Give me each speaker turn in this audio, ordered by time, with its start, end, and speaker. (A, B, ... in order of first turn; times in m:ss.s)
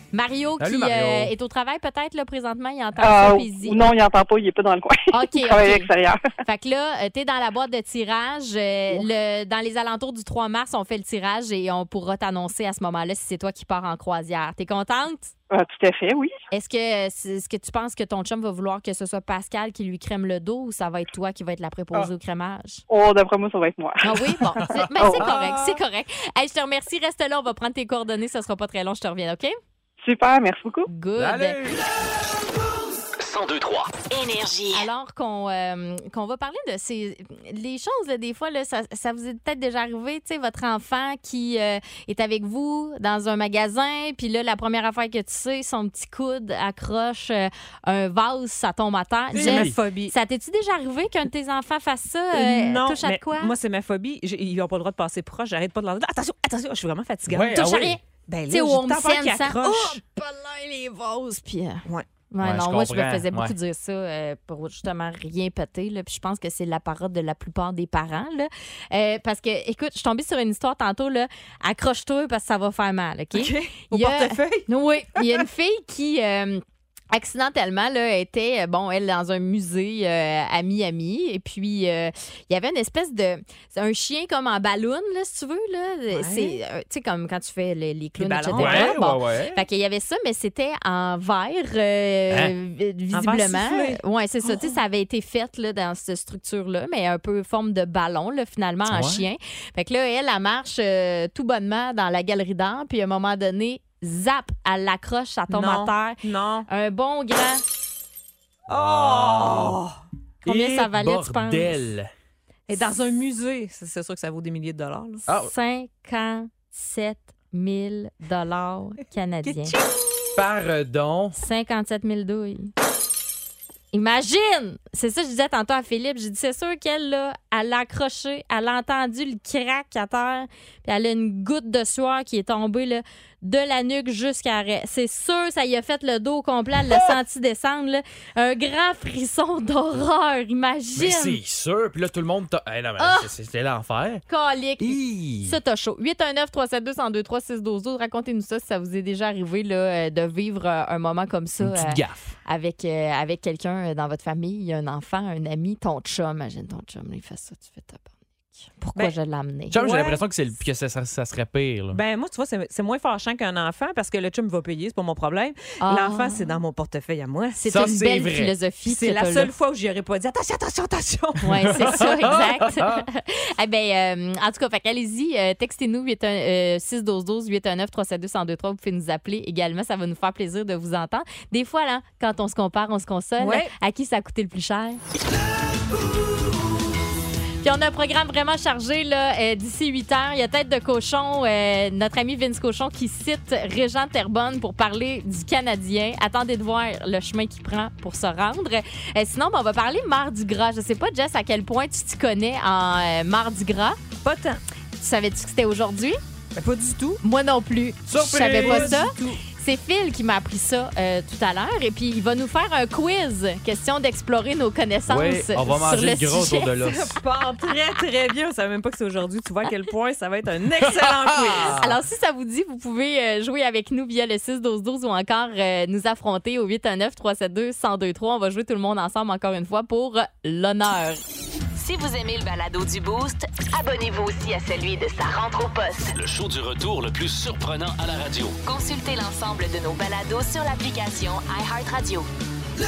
0:00.1-0:03.9 A
0:00.6-0:01.3 B
0:03.0-0:06.2 C
0:05.1-0:05.9 A
0:06.4-0:15.3 A
0:15.5-0:16.3 C
0:16.5-0:22.8 A
0:22.9-0:25.3 C
0:24.0-0:29.5 A
0:24.5-0:25.8 B
0:30.0-0:30.9 C
0:30.9-0:31.6 A
0:31.2-0:31.8 B
0:33.2-0:34.1 D
0:34.1-0:34.8 E
0:34.7-0:53.5 A
0:49.3-0:49.8 B
0:49.3-0:50.1 F
0:52.3-0:57.7 F
0:57.3-0:58.0 B
0:57.5-1:47.6 A
0:58.3-1:00.0 F
1:02.4-1:03.5 B
1:13.3-1:15.4 F
1:26.1-1:26.6 F
1:28.2-1:29.0 F
1:28.5-1:29.6 B
1:33.1-1:34.8 F
1:38.9-1:39.2 B
1:45.5-1:46.6 F
1:48.7-1:50.0 F
1:48.7-1:49.8 B
1:50.4-1:51.8 A
1:50.4-1:52.1 B
1:52.7-1:55.2 F
1:55.3-1:59.7 A
1:59.4-2:00.2 F
2:00.4-2:01.4 B
2:01.4-2:02.7 A
2:03.9-2:21.4 A
2:16.9-2:17.2 B
2:21.0-2:24.2 B
2:23.0-2:23.3 A
2:24.3-2:38.0 A
2:24.8-2:25.6 B
2:31.6-2:32.3 B
2:38.6-2:39.8 A
2:39.7-2:42.0 B
2:39.7-2:40.2 F
2:41.9-2:47.6 F
2:45.8-2:46.4 A
2:47.6-2:49.5 A
2:47.7-2:48.5 B
2:48.9-2:52.1 F
2:51.4-3:05.0 A
2:51.6-2:53.0 B
3:03.4-3:03.7 F
3:07.6-3:24.0 A
3:24.2-3:24.6 F
3:25.0-3:26.2 A
3:26.5-3:27.2 F
3:27.2-3:36.7 A
3:28.1-3:29.2 B
3:28.5-3:29.4 F
3:35.1-3:37.2 B
3:36.8-3:41.8 F
3:40.8-3:42.0 B
3:41.8-3:51.2 A
3:51.7-3:56.1 E
3:56.1-3:58.6 D
3:58.6-4:02.3 E